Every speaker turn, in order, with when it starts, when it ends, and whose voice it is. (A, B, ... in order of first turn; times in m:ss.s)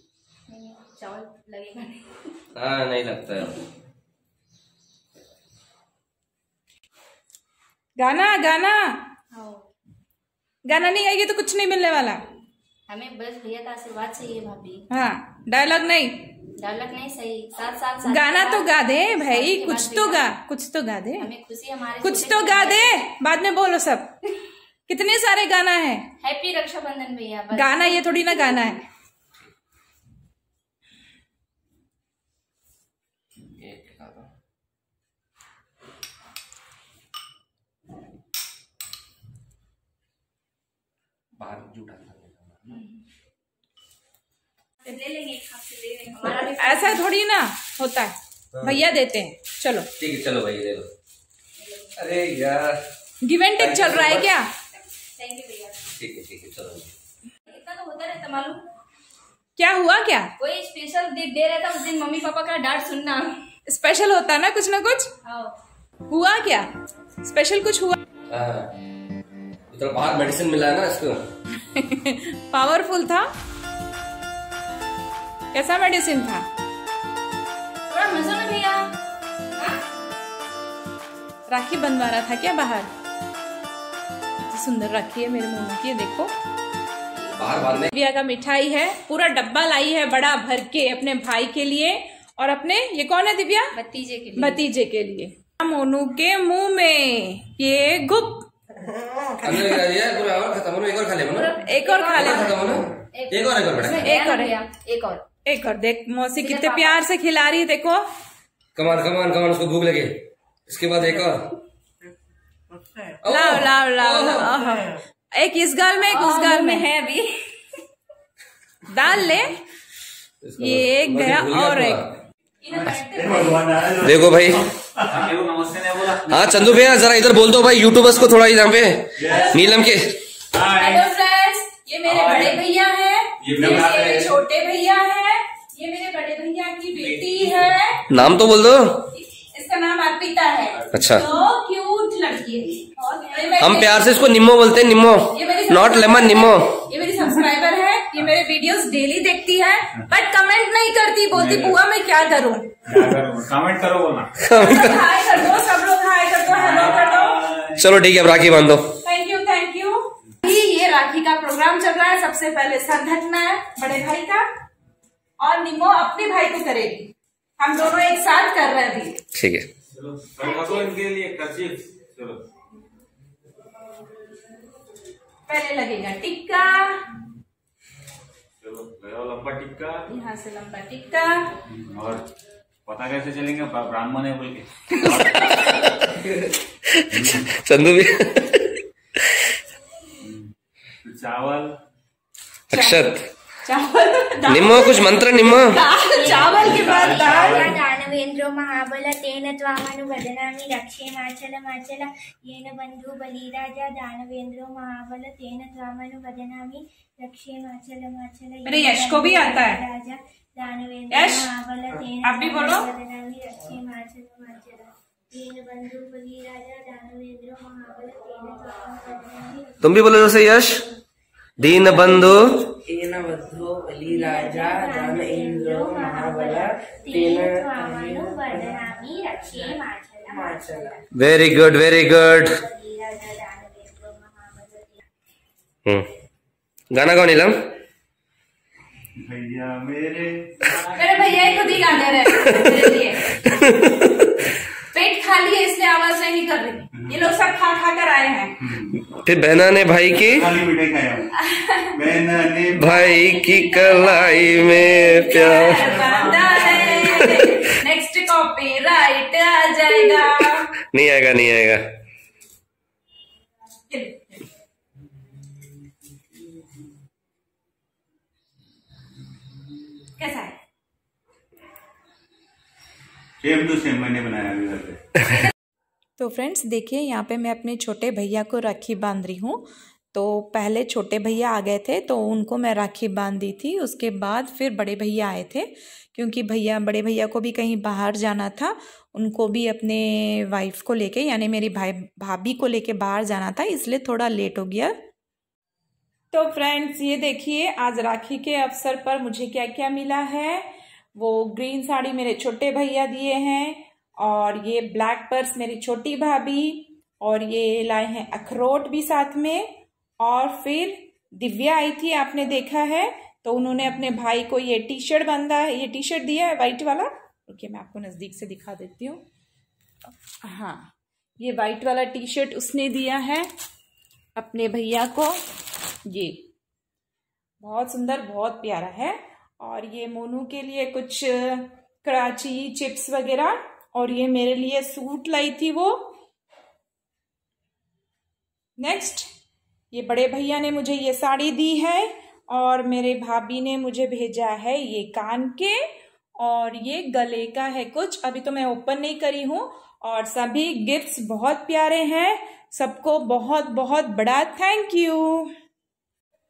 0:00.5-0:02.2 A
0:02.5-0:03.6 B
0:08.0-0:09.0 C
0:09.3-0:09.7 A
0:10.6-0:12.2 C
0:12.9-0:14.9 A
0:14.9-0:16.3 C
0:16.6-0:20.3 A
0:18.0-0:21.3 C
0:21.2-0:23.0 A
0:22.0-0:24.1 C
0:24.9-0:26.1 C
0:26.2-0:28.7 A
0:27.5-0:28.8 C
0:33.5-0:34.3 B
0:41.4-0:42.8 B
0:42.7-0:43.0 A
0:44.8-0:47.0 A
0:46.5-0:49.9 C
0:48.5-0:48.8 B
0:50.0-0:50.9 B
0:51.6-0:51.9 A
0:51.9-0:52.8 B
0:53.2-0:54.5 C
0:53.6-0:54.3 B
0:55.2-0:55.9 A
0:56.0-0:56.9 B
0:57.4-0:58.6 A
0:59.6-1:00.3 C
1:00.4-1:03.4 A
1:03.6-1:05.1 C
1:05.2-1:05.6 A
1:06.1-1:06.7 C
1:07.2-1:08.0 C
1:08.3-1:08.7 B
1:09.7-1:11.2 B
1:11.6-1:13.3 C
1:15.5-1:16.5 C
1:17.9-1:18.9 A
1:21.5-1:22.9 C
1:24.5-1:26.3 C
1:27.3-1:27.9 B
1:27.8-1:33.7 C
1:33.7-1:34.6 A
1:34.4-1:38.5 C
1:39.4-1:41.5 B
1:41.3-1:45.2 A
1:41.6-1:42.6 C
1:42.1-1:44.1 B
1:44.0-1:44.5 C
1:45.4-1:48.0 C
1:46.4-1:47.0 A
1:48.7-1:51.6 B
1:53.2-1:54.5 B
1:53.2-1:56.9 C
1:56.0-1:57.3 A
1:58.9-1:59.5 C
2:00.4-2:02.1 B
2:00.6-2:02.0 C
2:02.6-2:03.6 C
2:03.4-2:04.1 D
2:03.8-2:04.4 E
2:04.0-2:04.7 B
2:05.0-2:07.1 E
2:06.3-2:10.1 B
2:09.2-2:09.6 E
2:09.2-2:09.8 C
2:10.5-2:11.0 E
2:10.6-2:18.1 C
2:12.1-2:12.6 E
2:13.4-2:14.3 E
2:18.1-2:19.0 B
2:19.1-2:24.2 C
2:20.9-2:21.2 B
2:23.6-2:26.8 B
2:25.3-2:32.7 C
2:31.3-2:31.8 E
2:32.9-2:34.3 E
2:34.4-2:35.0 B
2:34.5-2:37.5 C
2:36.5-2:37.8 E
2:37.8-2:38.9 B
2:39.0-2:44.4 C
2:45.4-2:49.2 C
2:49.3-2:49.7 B
2:49.9-2:52.4 E
2:55.5-2:57.0 C
2:58.6-3:00.0 E
3:00.1-3:01.5 C
3:01.7-3:02.3 E
3:02.8-3:05.7 E
3:04.9-3:05.8 C
3:06.0-3:08.8 B
3:07.1-3:07.5 E
3:10.2-3:10.5 E
3:11.0-3:11.8 E
3:12.7-3:13.3 B
3:12.7-3:13.0 C
3:13.6-3:17.7 C
3:14.5-3:15.8 B
3:16.0-3:40.8 F
3:16.3-3:17.8 E
3:28.6-3:29.8 C
3:31.1-3:31.5 C
3:32.2-3:32.9 C
3:39.8-3:40.8 B
3:41.6-3:42.6 B
3:42.9-3:48.7 D
3:44.0-3:51.0 F
3:50.3-3:51.0 D
3:51.1-3:52.5 B
3:52.2-3:55.0 F
3:56.9-3:57.7 B
3:59.3-4:01.2 E
4:00.9-4:03.5 C
4:02.3-4:04.5 B
4:04.8-4:08.7 C
4:09.1-4:10.5 B
4:10.3-4:11.2 E
4:11.3-4:12.0 C
4:12.0-4:12.8 E
4:12.1-4:12.6 D
4:12.8-4:16.0 B
4:12.9-4:20.7 C
4:16.0-4:17.1 E
4:17.2-4:17.5 B
4:20.9-4:21.8 B
4:23.9-4:24.4 C
4:30.2-4:30.6 C
4:33.4-4:35.0 E
4:36.2-4:55.0 C
4:56.3-5:09.7 C
5:10.2-5:19.2 C
5:20.4-5:23.5 C
5:24.4-5:25.4 C
5:26.0-5:26.5 C
5:27.6-5:36.1 C
5:38.8-5:39.3 C
5:39.9-5:45.8 C
5:46.4-5:55.5 C